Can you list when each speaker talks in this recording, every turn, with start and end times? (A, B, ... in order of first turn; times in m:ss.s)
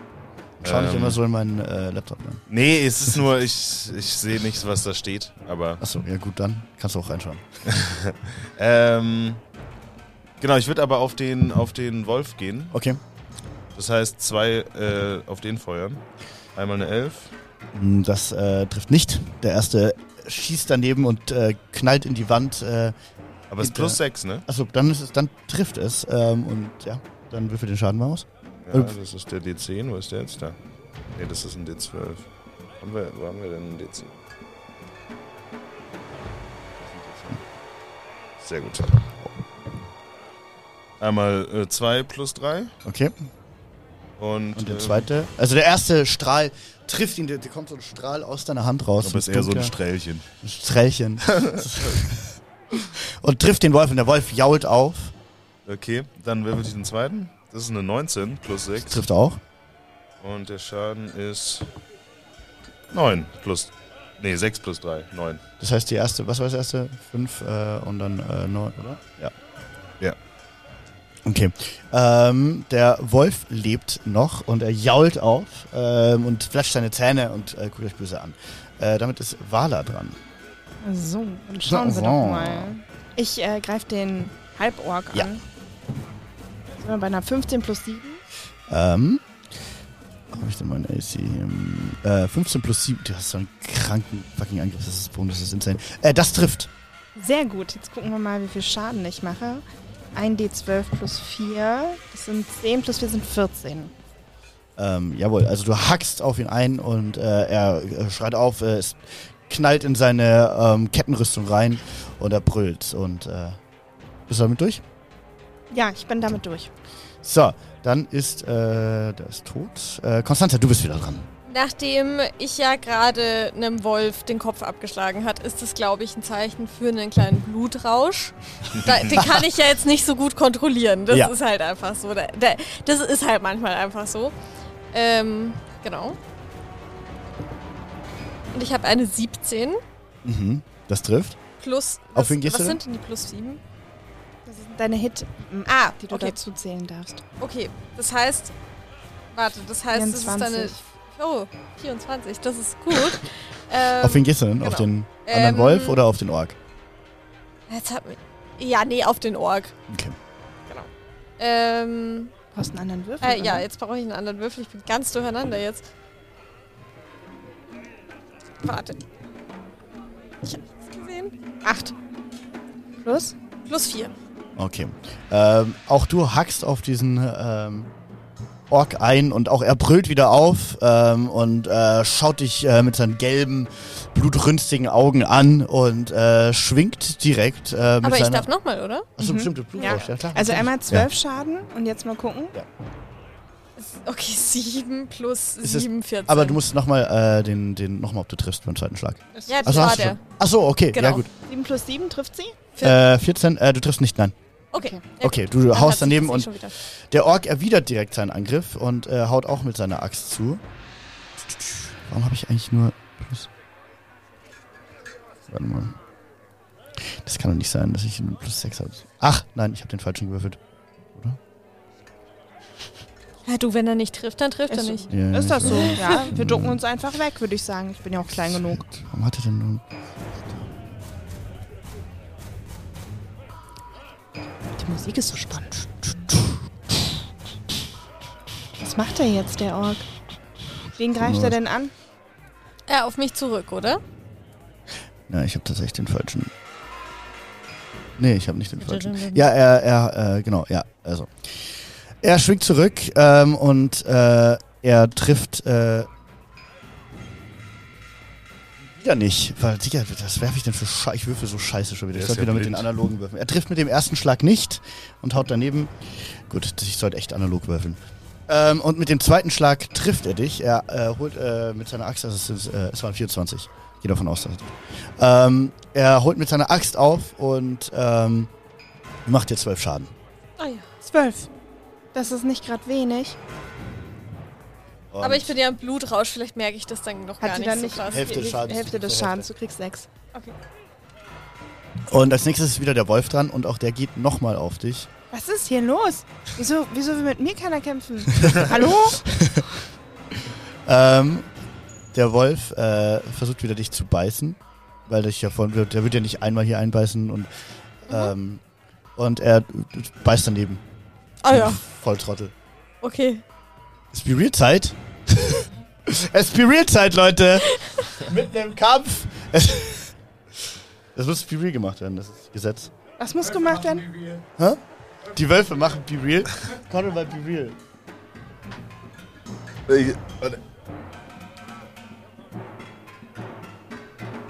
0:00.6-0:01.2 A
0:00.6-0:02.4 B
0:02.5-0:05.8 A
0:05.8-0:07.4 B
0:07.7-0:09.4 A
0:10.4-0:12.8 A
0:12.7-0:13.0 B
0:13.8-0:16.0 A
0:16.6-0:17.3 A
0:17.7-0:22.9 B
0:23.5-0:24.4 A
0:23.6-0:28.9 B
0:28.6-0:30.6 A
0:31.2-0:32.2 A
0:32.8-0:34.1 A
0:36.8-0:37.4 B
0:38.4-0:39.1 A
0:41.0-0:42.7 A
0:42.8-0:43.2 B
0:44.2-0:45.1 A
0:44.6-0:49.8 B
0:49.0-0:50.3 A
0:50.4-0:55.1 B
0:51.3-0:52.0 A
0:55.7-0:59.0 A
0:58.9-0:59.4 B
1:00.2-1:01.7 A
1:02.9-1:05.4 A
1:05.6-1:09.3 B
1:11.2-1:20.2 B
1:20.8-1:25.4 C
1:21.7-1:22.7 B
1:26.8-1:28.2 C
1:28.7-1:29.2 B
1:30.3-1:36.7 B
1:37.2-1:39.6 C
1:40.2-1:43.9 C
1:44.8-1:53.6 B
1:54.3-1:54.8 B
1:55.7-1:56.7 C
1:57.2-2:01.3 B
2:01.5-2:14.4 D
2:14.9-2:16.2 D
2:18.5-2:19.8 D
2:20.2-2:21.4 B
2:21.6-2:23.6 D
2:22.2-2:22.8 B
2:24.5-2:27.2 C
2:25.7-2:26.4 D
2:27.4-2:28.5 D
2:29.3-2:36.0 D
2:29.9-2:30.8 C
2:34.0-2:36.6 B
2:37.7-2:39.7 D
2:39.9-2:40.2 B
2:40.7-2:42.3 D
2:42.5-2:43.7 C
2:43.2-2:45.8 D
2:48.6-2:49.0 D
2:50.4-2:51.9 D
2:53.0-2:53.3 C
2:53.7-2:54.1 D
2:54.6-2:57.9 B
2:58.7-3:08.5 B
3:08.0-3:10.1 D
3:09.2-3:11.1 B
3:09.8-3:12.6 C
3:13.8-3:16.6 D
3:15.6-3:21.3 B
3:19.4-3:19.8 C
3:19.5-3:20.2 D
3:20.9-3:21.2 D
3:21.5-3:22.6 C
3:22.8-3:24.4 B
3:24.7-3:26.8 D
3:25.2-3:30.6 B
3:31.4-3:33.5 B
3:35.5-3:36.0 B
3:37.0-3:40.6 B
3:43.5-3:45.1 D
3:44.7-3:48.8 C
3:45.1-3:46.8 B
3:45.6-3:46.3 D
3:48.3-3:49.8 B
3:54.8-3:55.7 C
3:56.0-3:56.4 B
3:58.8-4:00.1 C
4:01.0-4:01.9 C
4:01.2-4:01.6 B
4:02.9-4:04.0 D
4:05.3-4:06.5 B
4:08.2-4:11.5 B
4:08.8-4:09.5 D
4:12.2-4:16.1 B
4:19.0-4:38.5 B
4:22.1-4:22.9 A
4:39.3-4:40.1 B
4:40.6-4:40.9 D
4:41.0-4:41.5 C
4:42.1-4:43.4 C
4:45.1-4:45.5 B
4:45.2-4:48.4 D
4:47.4-4:50.1 C
4:48.0-4:49.5 B
4:52.1-4:55.1 B
4:55.3-4:59.3 C
4:58.4-4:59.7 B
5:00.9-5:01.5 B
5:02.1-5:07.5 B
5:08.0-5:08.6 B
5:09.2-5:10.8 B
5:11.4-5:11.8 D
5:11.5-5:12.5 B
5:13.0-5:13.4 D
5:14.1-5:20.1 B
5:17.8-5:18.1 D
5:21.2-5:22.9 B
5:23.2-5:24.1 C
5:24.6-5:27.8 B
5:29.9-5:30.6 A